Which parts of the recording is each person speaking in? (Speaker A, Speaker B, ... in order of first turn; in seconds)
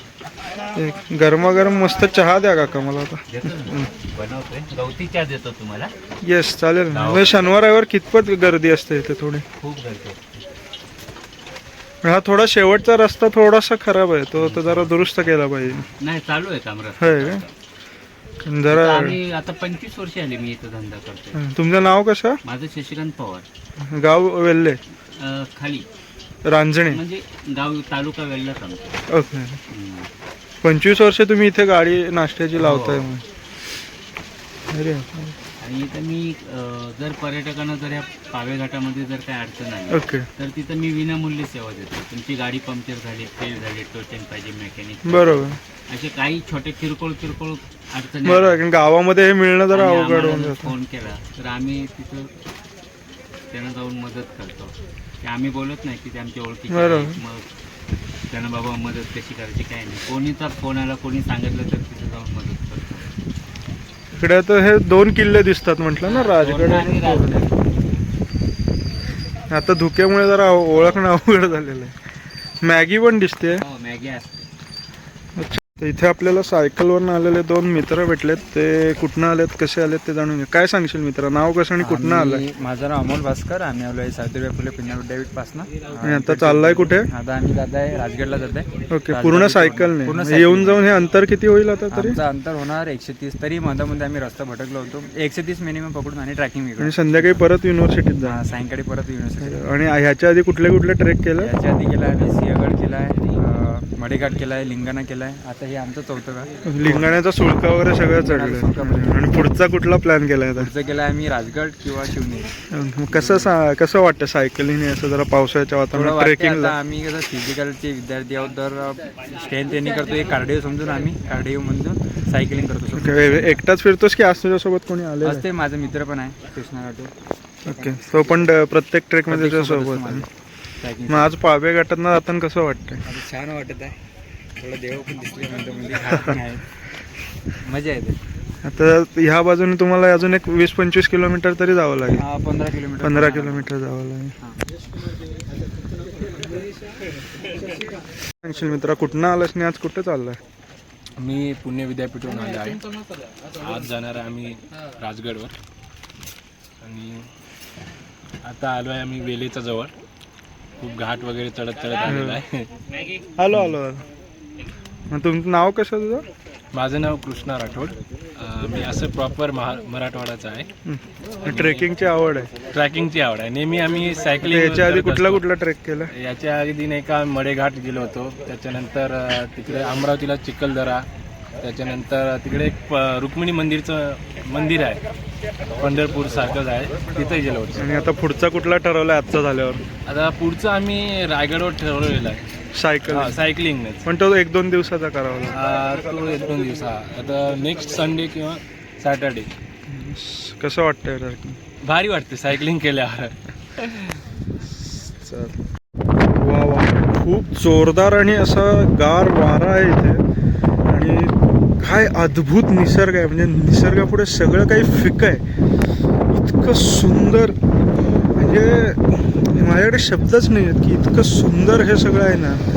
Speaker A: 0.7-3.9, 6.2-9.4, 12.0-15.9, 17.0-17.4, 18.4-19.2, 21.4-22.4, 23.9-24.8, 26.4-27.0, 29.1-29.6, 30.6-33.2, 34.7-35.3, 39.9-40.3, 45.0-45.6, 48.2-50.7, 56.7-57.2, 64.2-67.5, 69.5-71.9, 72.6-73.6, 75.4-82.5, 86.0-87.1, 88.9-92.2, 96.8-98.4, 99.4-101.5, 106.6-110.7, 112.7-116.8, 122.9-125.5, 127.6-130.3, 131.1-133.1, 136.1-136.4, 138.6-142.3, 143.0-144.3, 148.4-150.4, 162.1-162.4, 163.4-164.1, 165.1-166.2, 170.8-172.5, 174.4-176.1, 187.8-189.8, 192.7-193.4, 194.1-195.6, 199.9-201.6, 204.7-205.6, 206.4-210.2, 210.9-215.4, 216.3-217.6, 218.4-222.6
Speaker B: 3.3-6.0, 6.9-7.6, 9.6-10.5, 14.4-17.5, 18.7-21.4, 22.4-23.4, 25.1-25.9, 26.9-29.1, 29.7-30.1, 32.6-33.2, 35.6-48.7, 49.7-52.3, 53.5-57.5, 58.3-63.1, 66.0-67.6, 73.5-74.5, 162.9-163.3
Speaker C: 81.8-91.0, 91.9-97.4, 98.2-99.6, 101.4-107.2, 108.0-109.2, 110.6-112.5, 113.1-113.5, 115.9-123.6, 125.2-127.1, 127.7-128.6, 129.3-130.3, 130.8-131.3, 133.1-134.0, 134.6-136.6, 137.6-138.2, 142.2-143.7
Speaker D: 151.2-155.6, 156.8-157.3, 158.4-159.9, 160.8-162.7, 163.5-163.8, 166.7-170.7, 171.4-171.9, 172.7-175.5, 176.1-181.1, 181.6-185.0, 185.7-187.9, 190.1-192.5, 193.1-194.1, 195.5-199.5, 201.8-204.2